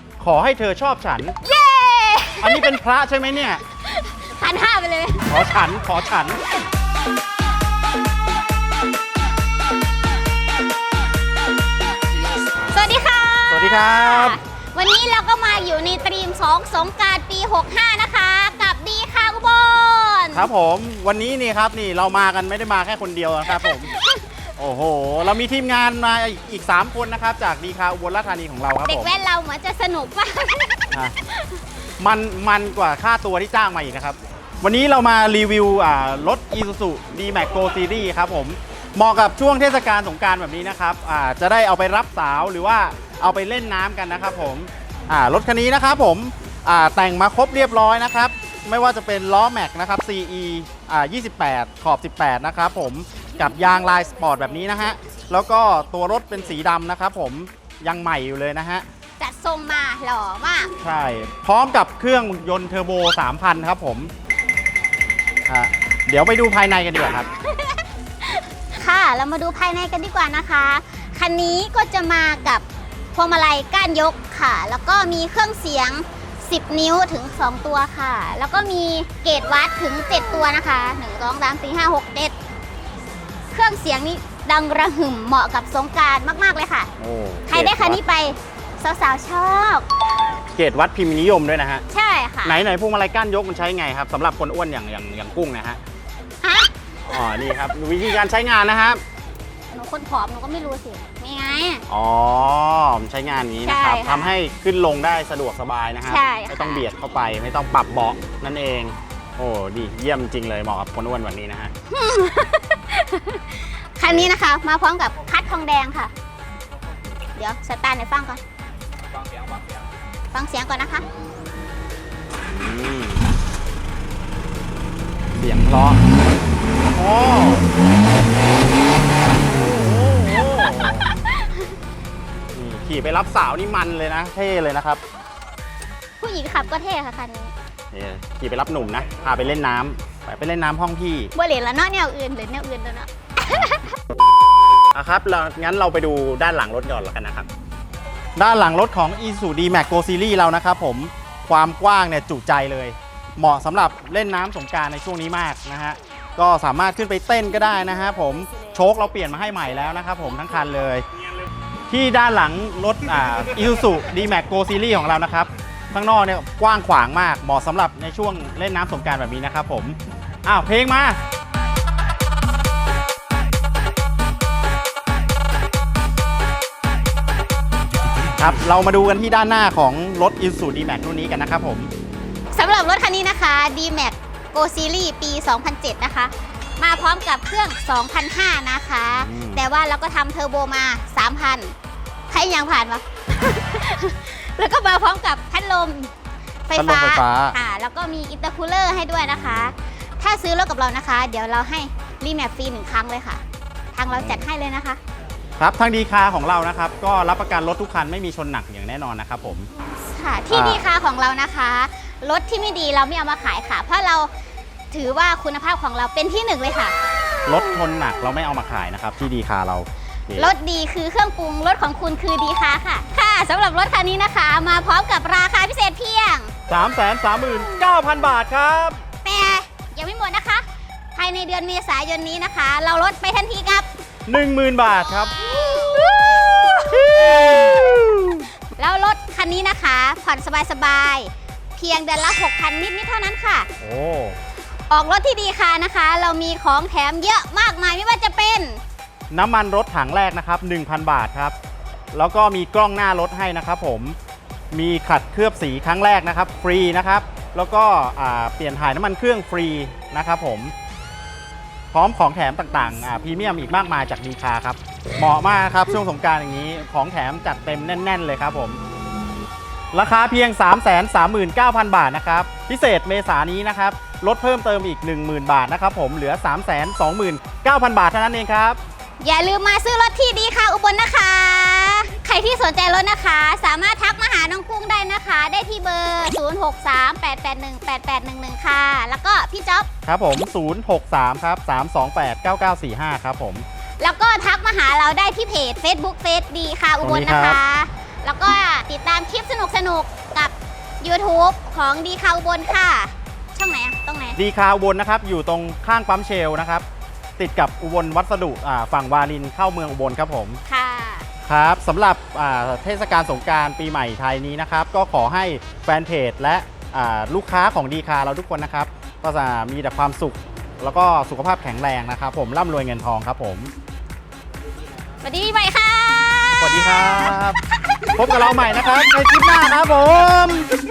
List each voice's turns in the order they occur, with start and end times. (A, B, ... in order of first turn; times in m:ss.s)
0:00.2-0:01.3 A
0:01.4-0:02.8 B
0:02.4-0:03.6 A
0:03.8-0:05.3 B
0:05.3-0:06.4 A
0:12.5-0:20.5 B
0:13.5-0:14.4 A
0:20.3-0:23.9 A
0:23.5-0:24.3 B
0:24.6-0:29.1 A
0:28.8-0:31.6 B
0:32.0-0:58.8 A
0:59.2-1:00.7 B
1:00.8-1:04.1 A
1:05.5-1:07.3 A
1:07.4-1:22.3 B
1:23.5-1:26.9 B
1:27.0-1:28.0 A
1:27.5-1:29.8 B
1:30.5-1:31.8 A
1:31.9-1:32.6 B
1:32.4-1:35.8 A
1:36.4-1:36.7 B
1:37.1-1:39.0 A
1:39.7-1:41.8 B
1:41.9-1:51.7 A
1:43.6-1:44.3 B
1:46.0-1:46.9 B
1:51.9-1:56.1 B
1:57.4-1:58.4 B
2:00.3-2:01.0 B
2:02.4-2:03.3 A
2:05.4-2:06.0 A
2:06.9-2:07.7 A
2:09.4-2:11.1 A
2:10.6-2:11.6 B
2:12.5-2:15.0 A
2:16.2-2:17.5 B
2:17.9-2:21.3 A
2:21.3-2:23.9 B
2:24.9-2:27.5 A
2:28.4-2:41.0 A
2:41.9-2:51.2 A
2:58.4-3:01.9 A
3:02.5-3:11.7 B
3:09.1-3:09.6 A
3:12.3-3:16.1 B
3:16.7-3:23.4 B
3:16.7-3:17.6 A
3:19.3-3:19.7 A
3:23.9-3:25.0 B
3:24.1-3:24.4 A
3:25.6-3:29.7 A
3:30.0-3:34.3 B
3:30.5-3:30.8 A
3:34.9-3:36.9 B
3:37.4-3:40.5 A
3:40.3-3:46.5 B
3:46.7-3:49.0 A
3:49.2-3:53.9 B
3:54.3-3:55.8 A
3:55.4-3:58.0 B
3:56.5-3:58.4 A
3:58.7-4:03.7 B
4:03.8-4:04.4 A
4:04.9-4:08.8 B
4:09.3-4:11.5 A
4:12.1-4:14.2 A
4:14.7-4:20.7 A
4:21.9-4:28.8 A
4:29.9-4:38.8 A
4:39.2-4:49.9 B
4:50.0-4:53.6 A
4:54.0-5:04.4 B
4:57.0-4:57.6 A
5:04.4-5:06.8 A
5:07.4-5:10.6 A
5:10.7-5:11.3 B
5:11.4-5:23.7 A
5:25.2-5:29.3 B
5:26.6-5:27.6 A
5:28.2-5:30.7 A